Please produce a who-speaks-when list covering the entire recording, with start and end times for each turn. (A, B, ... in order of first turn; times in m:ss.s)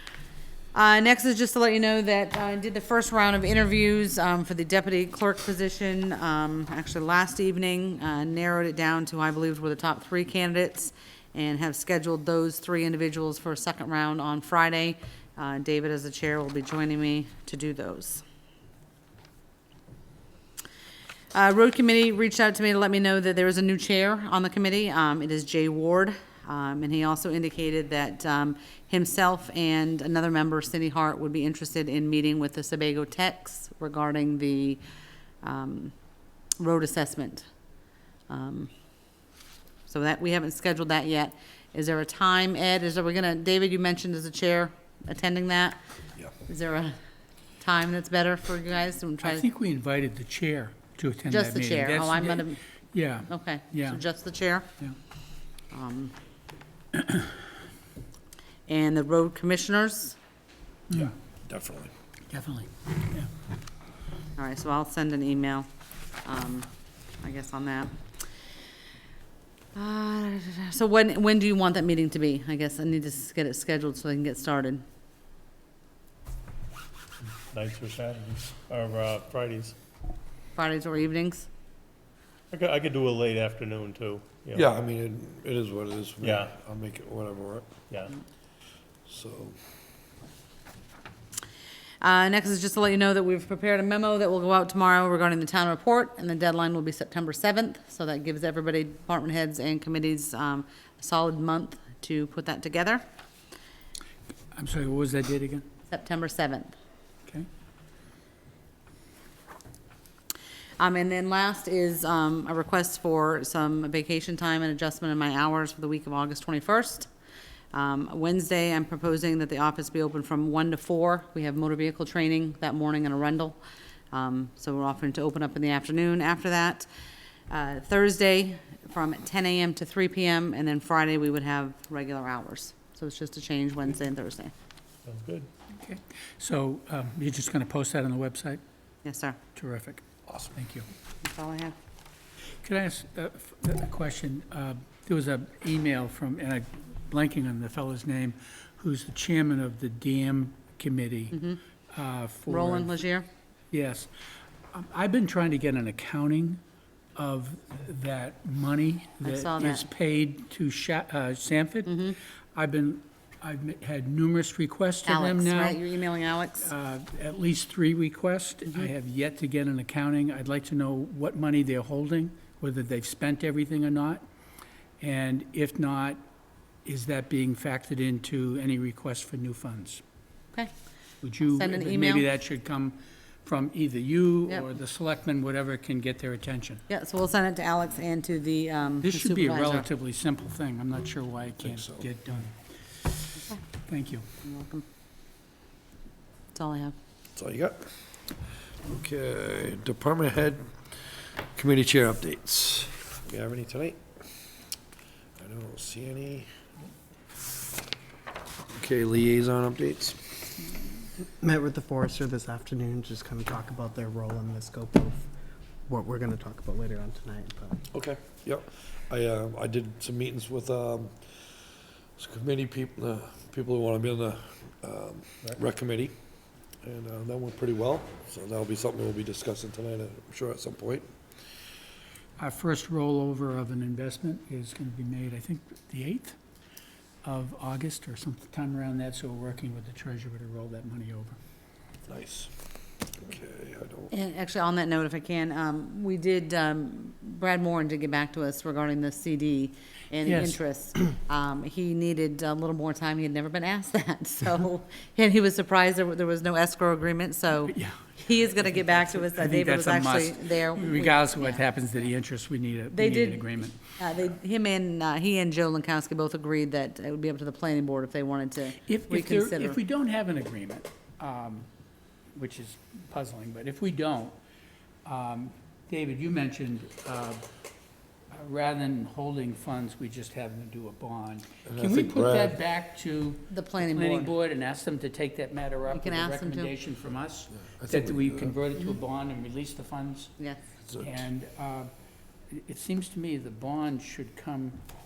0:00.7-0:18.2 A
0:21.3-0:34.8 A
0:35.4-0:35.9 A
0:36.6-0:37.4 A
0:38.3-0:38.7 A
0:39.9-0:45.8 A
0:46.4-0:47.0 A
0:47.6-0:49.4 A
0:49.2-0:54.0 B
0:51.3-0:52.6 A
0:53.3-0:54.7 A
0:55.7-0:56.1 A
0:56.9-0:57.3 B
0:58.7-1:00.2 A
1:00.9-1:01.9 C
1:02.3-1:03.3 B
1:04.4-1:05.7 A
1:06.2-1:06.7 A
1:07.2-1:07.9 A
1:09.7-1:14.8 A
1:17.5-1:19.7 D
1:20.6-1:21.5 A
1:22.5-1:24.7 D
1:24.5-1:27.7 C
1:26.2-1:26.5 D
1:29.0-1:29.6 C
1:32.0-1:43.0 A
1:44.5-1:45.6 B
1:45.9-1:46.7 A
1:50.8-1:57.1 A
1:57.7-2:03.6 A
2:04.1-2:06.9 A
2:07.5-2:14.5 A
2:15.0-2:15.5 D
2:15.8-2:18.6 B
2:19.0-2:19.4 A
2:19.6-2:20.9 B
2:20.3-2:20.5 C
2:21.2-2:21.7 A
2:22.6-2:31.4 B
2:31.3-2:31.6 A
2:31.9-2:32.9 B
2:32.5-2:33.3 A
2:33.7-2:34.1 B
2:34.7-2:36.6 B
2:37.2-2:45.8 B
2:39.2-2:39.9 A
2:41.9-2:42.2 A
2:45.0-2:46.7 A
2:46.6-2:54.2 B
2:55.0-2:56.2 B
2:56.8-3:00.0 B
3:01.2-3:06.8 B
3:01.4-3:02.2 A
3:06.9-3:09.9 A
3:09.0-3:12.5 B
3:11.6-3:12.0 C
3:13.9-3:14.2 B
3:14.4-3:14.8 A
3:16.5-3:16.9 A
3:17.4-3:17.9 C
3:18.8-3:24.0 C
3:25.4-3:26.5 C
3:28.7-3:30.4 C
3:31.4-3:35.3 E
3:35.9-3:37.8 E
3:37.9-3:41.3 C
3:42.2-3:46.1 C
3:46.8-3:51.1 C
3:52.4-3:56.4 B
3:57.2-4:01.4 B
4:02.0-4:02.5 C
4:03.1-4:04.1 C
4:04.1-4:22.1 A
4:10.2-4:10.6 B
4:17.7-4:23.8 B
4:22.9-4:29.8 A
4:28.8-4:31.7 B
4:32.3-4:34.4 B
4:35.0-4:37.4 B
4:38.3-4:50.3 B
4:41.6-4:42.5 C
4:43.5-4:44.3 A
4:45.9-4:46.7 A
4:47.6-4:48.6 C
4:50.8-4:51.3 C
4:51.0-4:51.9 B
4:52.5-4:54.8 B